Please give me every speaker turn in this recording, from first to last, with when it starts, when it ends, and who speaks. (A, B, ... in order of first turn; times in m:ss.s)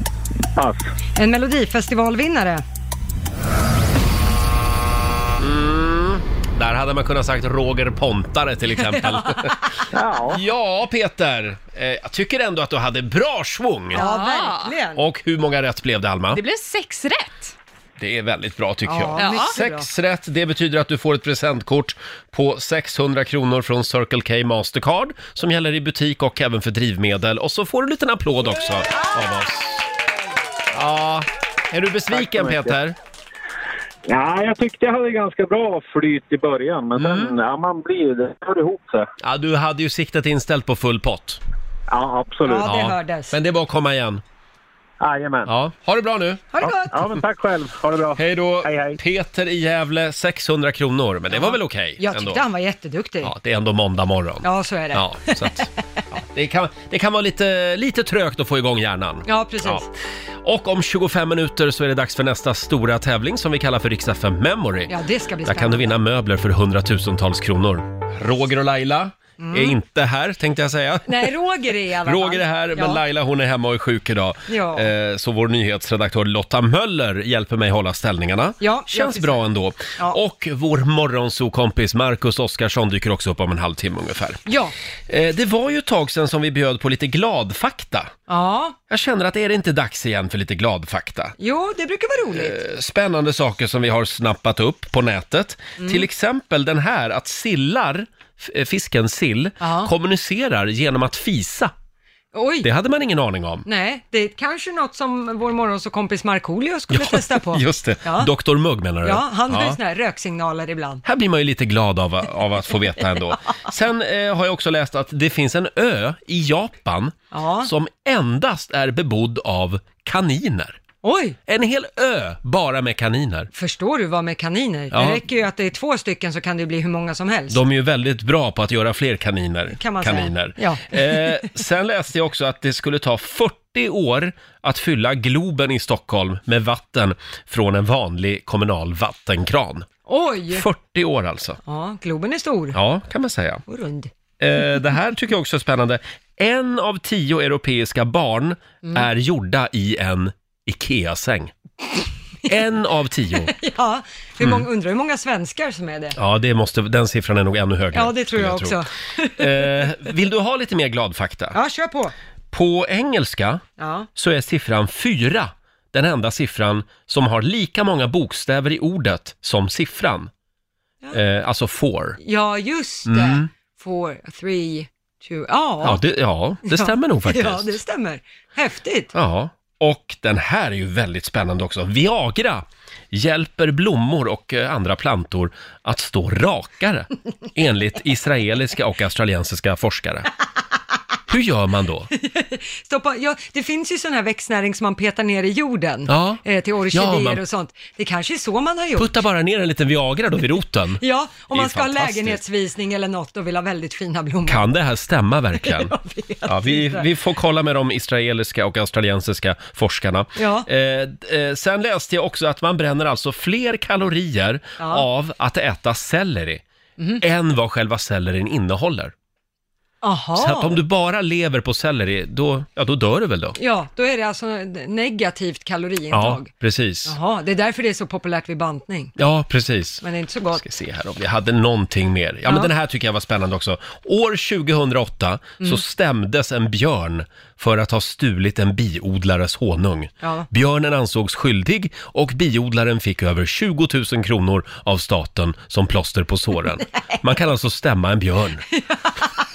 0:00.6-0:00.9 A
0:01.2-0:02.6 B
0:05.4-0:09.6 C
0:09.0-0:09.5 B
0:09.9-0:10.4 A
0:10.3-0:14.0 C
0:13.9-0:14.8 D
0:14.0-0:15.0 B
0:15.0-0:16.4 C
0:16.3-0:17.6 D
0:18.0-0:29.9 C
0:18.9-0:19.8 B
0:19.2-0:19.6 D
0:30.7-0:33.0 C
0:32.1-0:32.8 A
0:34.1-0:39.1 A
0:37.0-0:37.4 C
0:39.2-0:41.4 C
0:41.9-0:42.7 A
0:42.5-0:43.3 B
0:42.5-0:44.2 C
0:45.0-0:45.5 A
0:45.5-0:46.5 C
0:46.5-0:47.0 B
0:46.6-0:49.0 A
0:48.2-0:52.4 C
0:51.3-0:53.3 B
0:53.2-0:59.9 C
0:54.4-0:55.7 B
0:59.3-0:59.9 B
1:00.4-1:04.9 C
1:04.9-1:05.9 B
1:05.4-1:11.3 C
1:09.4-1:09.8 B
1:11.1-1:13.0 B
1:12.0-1:24.4 C
1:14.5-1:14.9 B
1:18.6-1:19.4 B
1:24.5-1:24.7 B
1:25.1-1:28.1 C
1:28.3-1:28.8 B
1:28.9-1:31.4 C
1:31.4-1:32.6 B
1:32.3-1:41.7 C
1:35.8-1:36.1 B
1:39.6-1:39.9 B
1:42.3-1:42.7 B
1:42.6-1:43.7 C
1:43.7-1:48.3 B
1:46.9-1:49.8 C
1:49.0-1:51.0 B
1:51.0-2:00.8 C
1:57.3-1:57.7 B
2:01.0-2:01.4 B
2:01.5-2:03.5 C
2:03.5-2:07.6 B
2:04.9-2:05.2 C
2:07.5-2:19.9 C
2:09.8-2:11.4 B
2:20.1-2:20.6 B
2:20.5-2:21.6 C
2:21.6-2:22.8 B
2:22.7-2:23.6 C
2:23.7-2:24.1 B
2:24.4-2:31.5 C
2:32.5-2:33.5 C
2:33.5-2:36.2 B
2:36.2-2:38.8 C
2:37.9-2:39.9 B
2:39.4-2:41.6 C
2:41.5-2:42.1 B
2:42.5-2:43.6 C
2:43.8-2:44.1 B
2:44.2-2:50.3 C
2:51.1-2:52.2 C
2:52.2-2:56.0 B
2:53.1-2:53.5 C
2:55.8-2:57.8 C
2:56.6-2:59.1 B
2:59.1-3:10.3 C
3:11.3-3:12.1 C
3:12.1-3:19.2 B
3:16.1-3:16.4 C
3:16.9-3:17.4 C
3:19.0-3:22.4 C
3:21.0-3:24.7 B
3:24.5-3:25.9 C
3:25.6-3:27.1 B
3:26.5-3:36.6 C
3:30.4-3:30.7 B
3:34.8-3:35.1 B
3:37.2-3:39.1 C
3:40.0-3:40.8 B
3:40.4-3:43.6 C
3:43.6-3:46.5 B
3:46.1-3:47.2 C
3:47.0-3:49.2 B
3:49.2-3:50.0 C
3:50.0-3:50.6 B
3:50.6-4:08.6 C
4:00.2-4:00.5 B